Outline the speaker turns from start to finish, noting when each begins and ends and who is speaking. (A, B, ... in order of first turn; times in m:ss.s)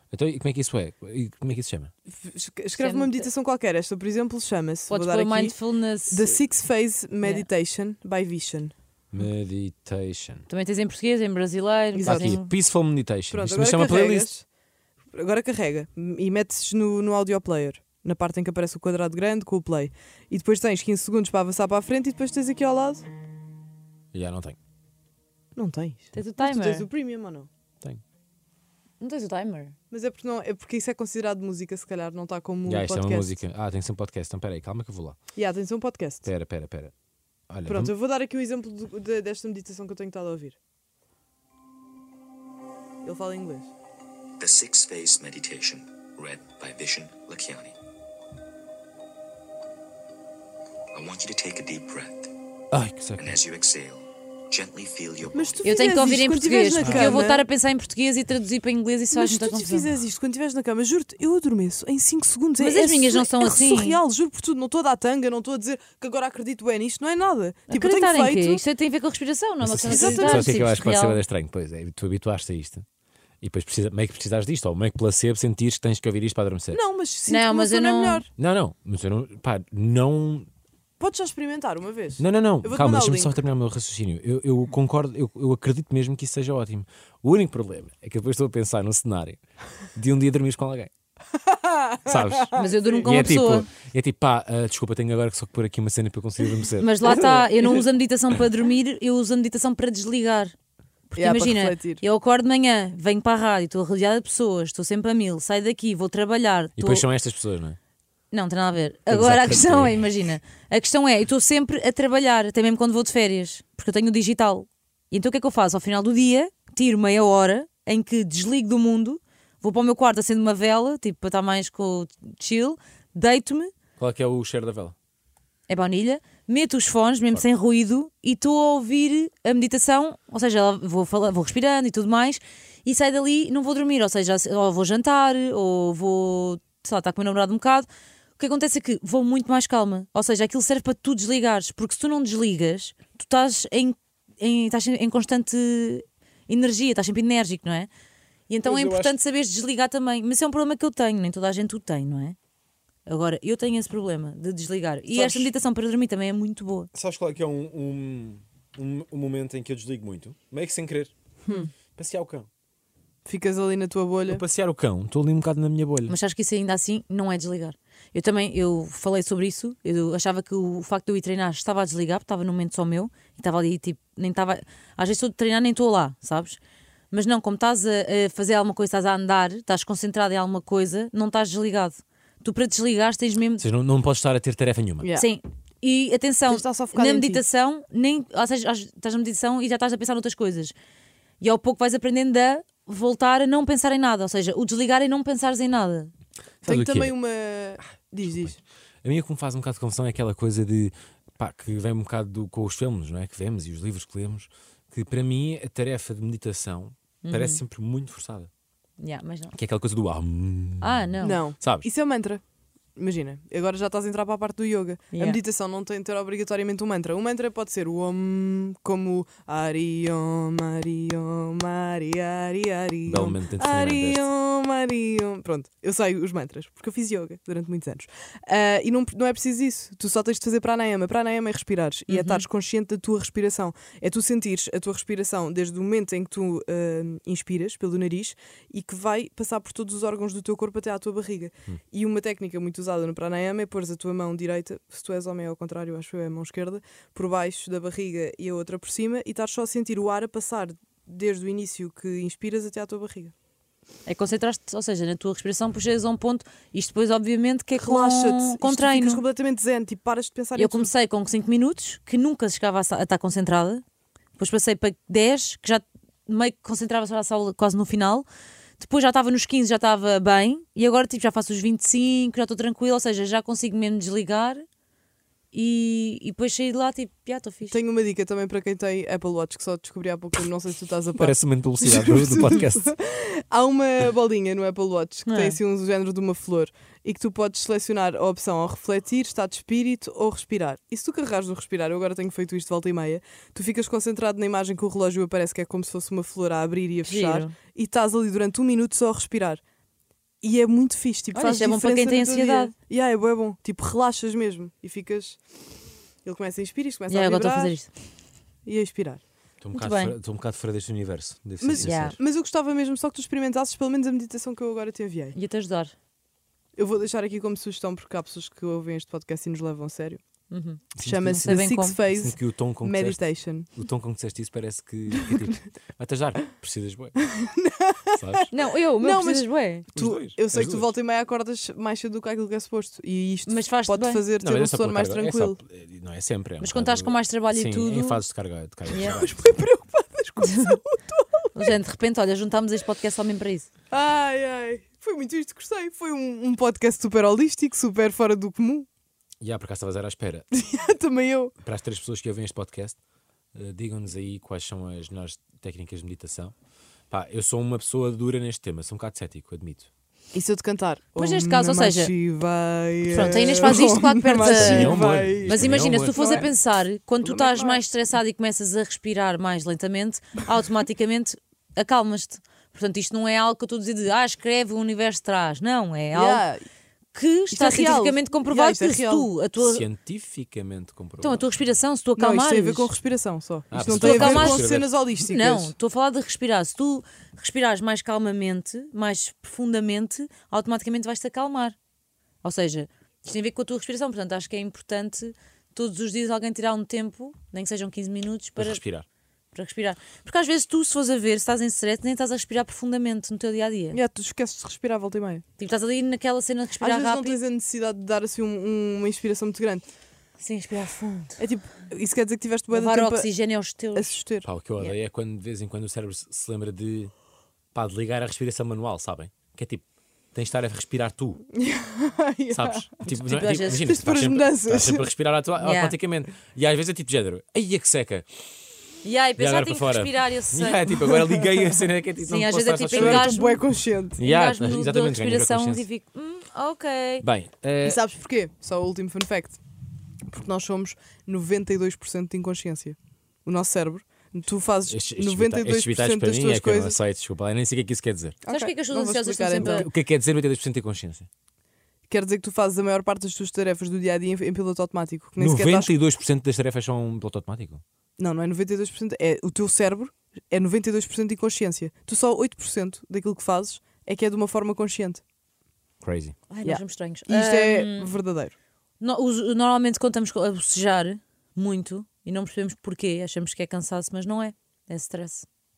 0:00.1-0:01.9 A
0:02.1-0:05.6 B
0:02.7-0:03.3 C
0:04.9-0:06.4 C
0:06.1-0:08.7 B
0:07.2-0:07.5 C
0:09.1-0:10.5 A
0:10.5-0:12.5 C
0:11.9-0:12.4 B
0:12.0-0:14.3 A
0:13.3-0:14.4 B
0:15.1-0:23.0 B
0:24.1-0:24.6 A
0:25.5-0:27.5 B
0:26.1-0:26.9 C
0:29.0-0:29.8 C
0:29.9-0:33.4 B
0:32.6-0:35.2 A
0:35.4-0:36.3 B
0:36.2-0:36.9 A
0:37.5-0:37.9 A
0:37.6-0:40.6 B
0:43.0-0:43.7 B
0:44.4-0:47.7 D
0:50.9-0:52.3 D
0:52.7-0:53.4 A
0:53.2-0:55.5 D
0:55.3-0:57.4 B
0:55.6-0:59.9 C
0:56.8-0:57.2 A
0:59.1-1:08.6 B
1:02.6-1:04.0 C
1:07.7-1:11.2 C
1:09.6-1:12.8 A
1:09.8-1:10.7 B
1:13.4-1:16.8 A
1:16.7-1:18.3 B
1:17.3-1:18.2 C
1:18.4-1:20.5 A
1:21.0-1:23.4 B
1:22.2-1:29.4 A
1:30.0-1:30.9 A
1:31.4-1:33.3 B
1:32.1-1:32.5 A
1:32.5-1:33.7 C
1:33.0-1:37.3 A
1:36.8-1:40.5 C
1:41.1-1:47.1 C
1:41.2-1:42.0 B
1:46.8-1:47.8 A
1:48.3-2:03.7 C
1:49.1-1:50.0 A
2:04.0-2:05.0 A
2:05.7-2:27.9 C
2:28.5-2:32.4 C
2:28.6-2:29.2 A
2:33.0-2:36.9 C
2:35.1-2:35.5 B
2:36.9-2:41.1 A
2:41.5-2:41.7 B
2:42.0-2:42.5 A
2:43.2-2:44.4 B
2:44.3-2:46.2 A
2:46.1-2:56.6 C
2:57.1-3:03.6 C
3:03.6-3:05.1 A
3:05.0-3:05.3 B
3:05.1-3:10.8 C
3:06.5-3:07.4 B
3:11.4-3:16.1 C
3:16.6-3:17.1 A
3:16.6-3:18.6 B
3:18.2-3:28.5 A
3:27.2-3:27.6 C
3:29.0-3:29.5 C
3:29.5-3:31.1 A
3:30.8-3:31.4 C
3:31.2-3:32.4 B
3:31.6-3:31.9 A
3:33.0-4:13.3 B
3:35.1-3:35.4 C
3:43.0-3:44.2 A
3:52.1-3:52.4 C
4:14.0-4:19.2 C
4:17.8-4:20.9 B
4:20.5-4:23.8 C
4:24.4-4:28.3 C
4:28.8-4:34.6 C
4:35.5-4:37.8 C
4:37.7-4:59.6 B
4:41.1-4:42.9 A
4:45.2-4:45.6 C
4:57.0-4:57.5 C
5:00.4-5:05.4 B
5:01.3-5:02.7 C
5:06.2-5:07.8 B
5:07.1-5:07.9 C
5:08.6-5:09.2 B
5:09.6-5:12.2 A
5:09.7-5:10.2 C
5:11.6-5:15.4 B
5:11.8-5:12.2 C
5:15.3-5:15.9 C
5:16.8-5:20.2 B
5:20.5-5:22.0 C
5:21.0-5:27.2 A
5:21.0-5:23.7 B
5:27.3-5:28.5 B
5:28.2-5:28.5 A
5:28.5-5:29.9 C
5:29.0-5:35.6 B
5:30.0-5:30.9 A
5:33.5-5:34.2 C
5:34.4-5:39.3 A
5:36.6-5:38.2 C
5:38.9-5:41.7 B
5:40.4-5:40.8 C
5:41.5-5:43.7 C
5:43.9-5:48.9 B
5:49.4-5:50.5 A
5:50.6-5:51.5 B
5:51.6-5:53.0 A
5:53.5-5:56.5 A
5:57.1-5:59.9 A
6:00.3-6:06.5 B
6:01.2-6:02.1 C
6:03.1-6:16.4 C
6:04.4-6:06.5 A
6:07.2-6:07.8 B
6:16.1-6:16.6 B
6:17.1-6:19.9 C
6:17.5-6:19.3 B
6:19.6-6:21.7 A
6:21.2-6:22.9 C
6:22.2-6:25.7 B
6:23.7-6:24.9 A
6:23.8-6:24.7 C
6:25.2-6:31.8 C
6:32.4-6:38.8 C
6:38.6-6:39.0 A
6:39.5-6:44.0 C
6:43.9-6:45.4 B
6:45.6-6:47.4 C
6:46.8-6:49.8 B
6:50.4-6:51.4 C
6:51.4-6:53.3 B
6:52.7-6:54.2 C
6:53.9-6:54.5 B
6:54.4-6:57.1 A
6:57.7-7:01.4 A
7:01.6-7:03.0 B
7:02.5-7:08.3 A
7:03.1-7:03.8 C
7:03.8-7:05.1 B
7:05.6-7:06.0 C
7:09.0-7:11.0 C
7:09.4-7:13.3 A
7:12.2-7:13.6 C
7:12.9-7:14.2 B
7:14.2-7:15.9 A
7:14.2-7:17.2 C
7:17.2-7:18.0 A
7:17.8-7:19.6 B
7:20.3-7:27.0 B
7:24.9-7:28.4 A
7:28.4-7:29.9 B
7:28.5-7:29.9 C
7:29.6-7:31.3 A
7:32.1-7:35.9 B
7:35.4-7:37.8 A
7:38.2-7:45.2 B
7:46.0-7:46.4 A
7:46.5-7:48.1 C
7:46.6-7:48.6 B
7:49.0-7:55.4 C